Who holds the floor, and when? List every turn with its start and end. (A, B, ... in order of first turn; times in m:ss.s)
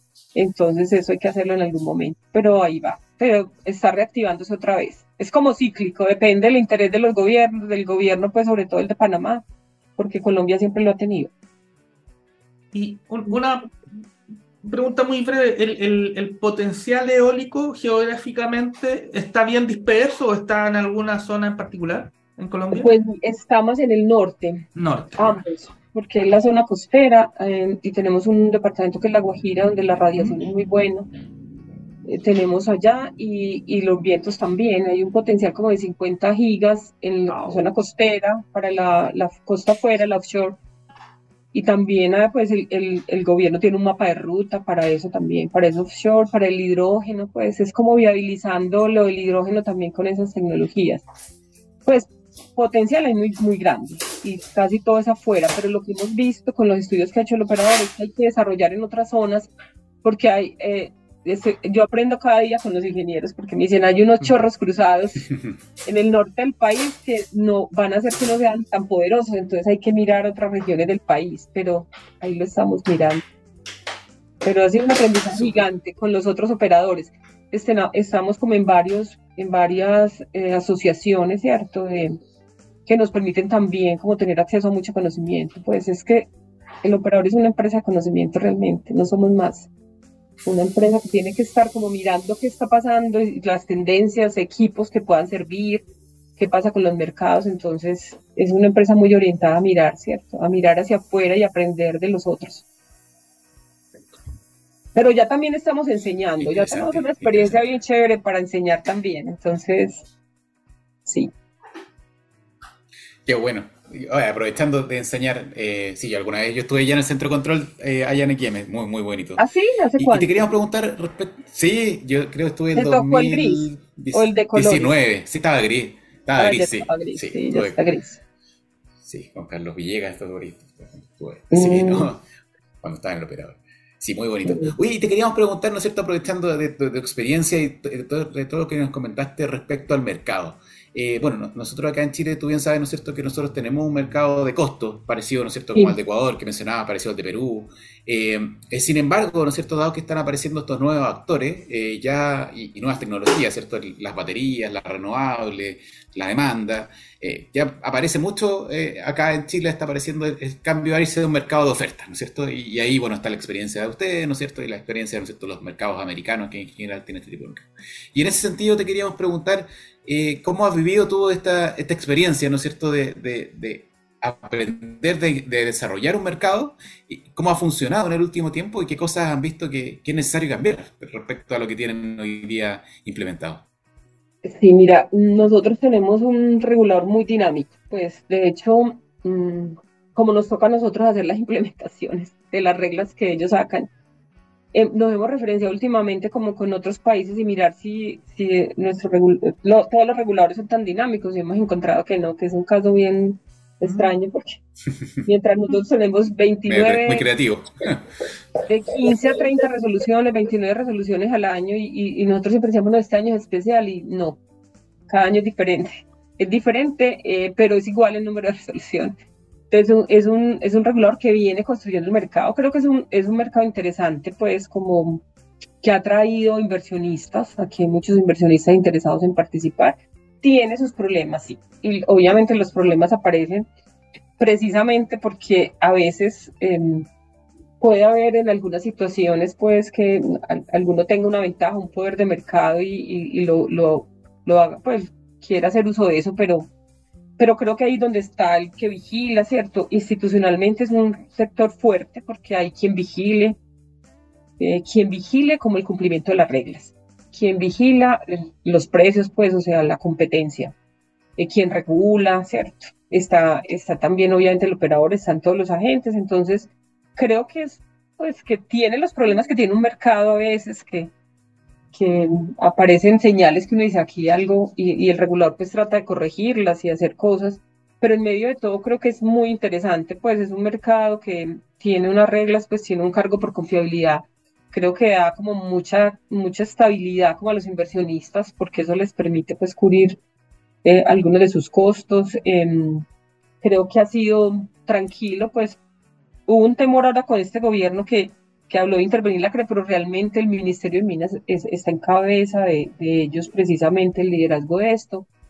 0:00.3-0:09.4 A
0:10.0-0:11.3 A
0:12.7-0:14.0 B
0:14.6-0:22.9 B
0:22.7-0:31.1 A
0:24.7-0:25.4 B
0:32.0-0:40.6 A
0:37.3-0:37.6 B
0:41.5-0:51.0 A
0:51.8-0:59.5 A
1:00.0-1:05.3 A
1:05.8-1:13.2 A
1:14.4-1:22.2 A
1:22.8-1:26.3 A
1:26.8-1:29.7 A
1:30.4-1:35.8 A
1:36.4-1:42.6 A
1:44.9-1:50.1 A
1:46.4-1:47.6 C
1:51.0-1:51.3 A
1:53.2-1:59.4 C
1:59.4-2:00.5 A
2:00.0-2:07.8 C
2:02.7-2:04.9 A
2:06.4-2:08.2 A
2:09.0-2:12.2 C
2:11.5-2:12.1 A
2:12.8-3:03.6 C
2:14.4-2:14.7 A
3:04.4-3:13.9 A
3:14.7-3:24.6 A
3:23.8-3:24.1 B
3:25.2-3:27.3 A
3:26.7-3:28.1 C
3:28.6-3:34.4 A
3:35.1-3:39.1 A
3:39.7-3:45.2 A
3:45.8-3:53.6 A
3:54.4-3:57.1 A
3:57.8-4:06.7 A
4:07.4-4:13.6 A
4:14.6-4:20.7 A
4:21.4-4:31.1 A
4:31.9-4:50.2 A
4:50.8-4:53.0 A
4:53.6-4:55.8 A
4:56.5-5:05.3 A